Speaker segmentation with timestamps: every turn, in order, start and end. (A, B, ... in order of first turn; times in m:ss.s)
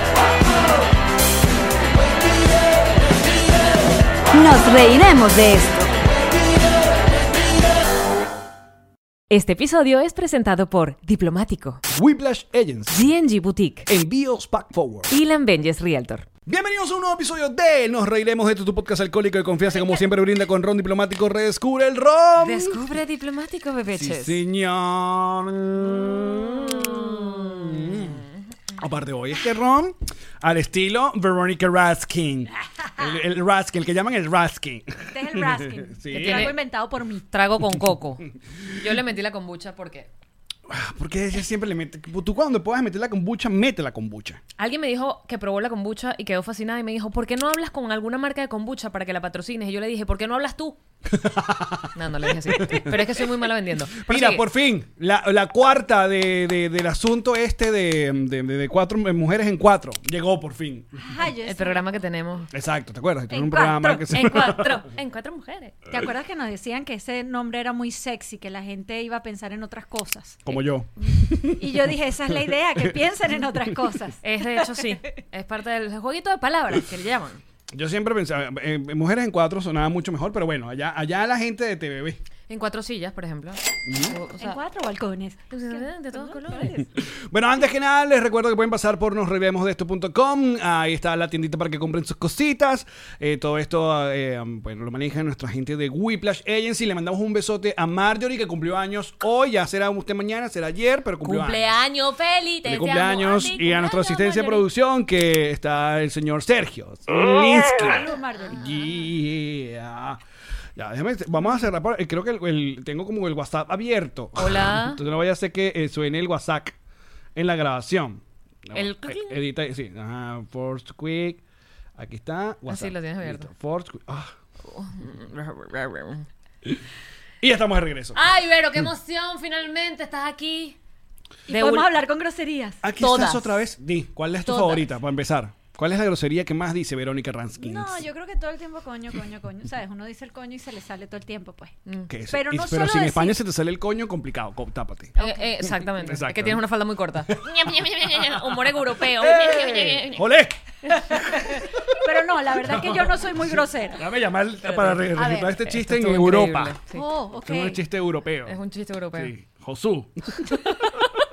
0:04.3-0:05.9 A
0:09.3-0:11.8 B
0:11.9-0:13.0 C
0:12.9-0:13.9 B
0:13.9-0:15.1 C
0:15.1-0:16.2 B
0:16.4-0:22.8 C
0:22.4-0:24.4 B
0:23.9-0:28.2 C
0:26.7-0:28.1 B
0:28.8-0:36.5 C
0:35.1-0:37.3 A
0:36.1-0:36.5 B
0:37.3-0:40.1 B
0:40.7-0:44.4 C
0:44.6-0:50.8 B
0:51.1-1:01.0 C
0:51.9-0:54.4 B
1:01.0-1:02.0 A
1:01.4-1:02.5 B
1:02.5-1:04.8 C
1:03.3-1:04.6 A
1:04.1-1:05.8 B
1:05.9-1:10.5 A
1:10.4-1:13.8 C
1:11.5-1:14.7 A
1:14.2-1:17.4 B
1:17.7-1:22.2 C
1:22.5-1:24.6 B
1:23.8-1:24.1 C
1:24.4-1:26.8 A
1:25.5-1:26.9 B
1:27.0-1:41.8 C
1:41.2-1:44.6 B
1:42.6-1:50.2 C
1:43.6-1:44.4 A
1:47.7-1:48.6 A
1:50.7-1:56.8 C
1:54.4-1:55.0 B
1:57.3-2:01.4 C
1:58.7-1:59.4 B
2:02.0-2:04.3 C
2:02.7-2:03.5 B
2:04.6-2:06.3 B
2:07.4-2:08.2 C
2:08.1-2:10.8 B
2:11.5-2:12.8 A
2:11.5-2:11.9 B
2:12.8-2:18.0 C
2:13.0-2:13.5 B
2:14.5-2:14.8 A
2:17.6-2:21.8 A
2:22.1-2:26.6 C
2:22.3-2:23.4 A
2:25.2-2:30.2 B
2:25.2-2:25.4 A
2:27.3-2:31.7 C
2:32.0-2:34.0 A
2:32.6-2:36.8 C
2:34.6-2:37.0 B
2:36.9-2:37.8 A
2:37.4-2:38.6 C
2:38.4-2:39.3 B
2:39.1-2:41.0 C